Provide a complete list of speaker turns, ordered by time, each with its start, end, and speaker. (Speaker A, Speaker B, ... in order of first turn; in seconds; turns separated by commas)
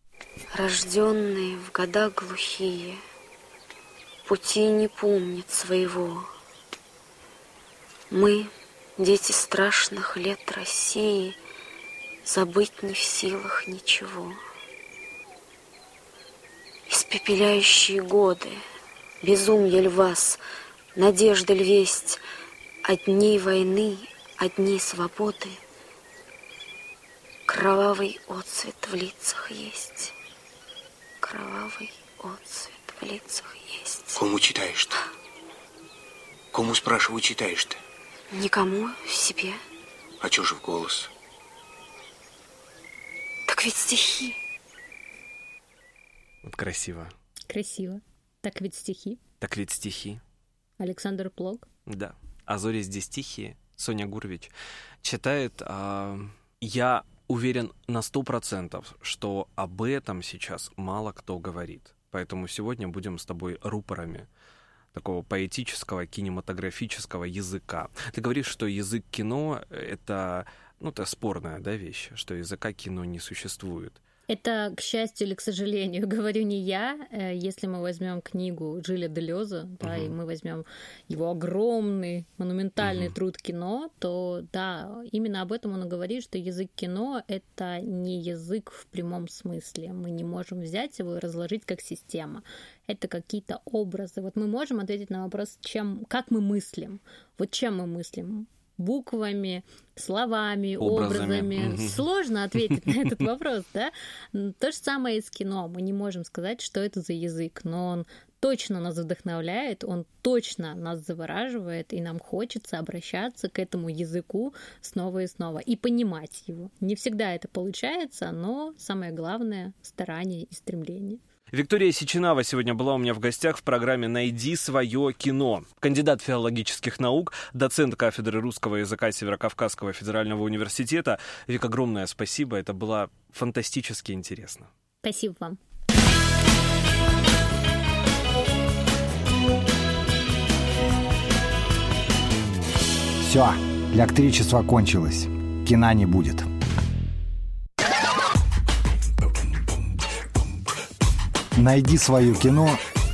Speaker A: 0.5-3.0, Speaker A: 4.2-6.3, Speaker A: 8.1-11.4, Speaker A: 12.2-14.4, Speaker A: 16.9-18.6, Speaker A: 19.2-20.4, Speaker A: 20.9-22.2, Speaker A: 22.8-25.6, Speaker A: 27.5-30.1, Speaker A: 31.2-34.2, Speaker B: 34.1-34.9, Speaker B: 36.5-37.8, Speaker A: 38.3-39.6, Speaker B: 40.2-41.1, Speaker A: 43.5-44.4, Speaker C: 46.4-47.1, Speaker D: 47.5-49.2, Speaker C: 49.4-50.2, Speaker D: 50.8-51.6, Speaker C: 51.9-64.3, Speaker C: 64.9-74.0, Speaker D: 74.3-121.2, Speaker C: 79.8-80.1, Speaker C: 82.8-83.1, Speaker C: 100.8-102.0, Speaker C: 121.5-134.7, Speaker D: 135.0-135.6, Speaker E: 143.2-146.5, Speaker E: 151.5-152.8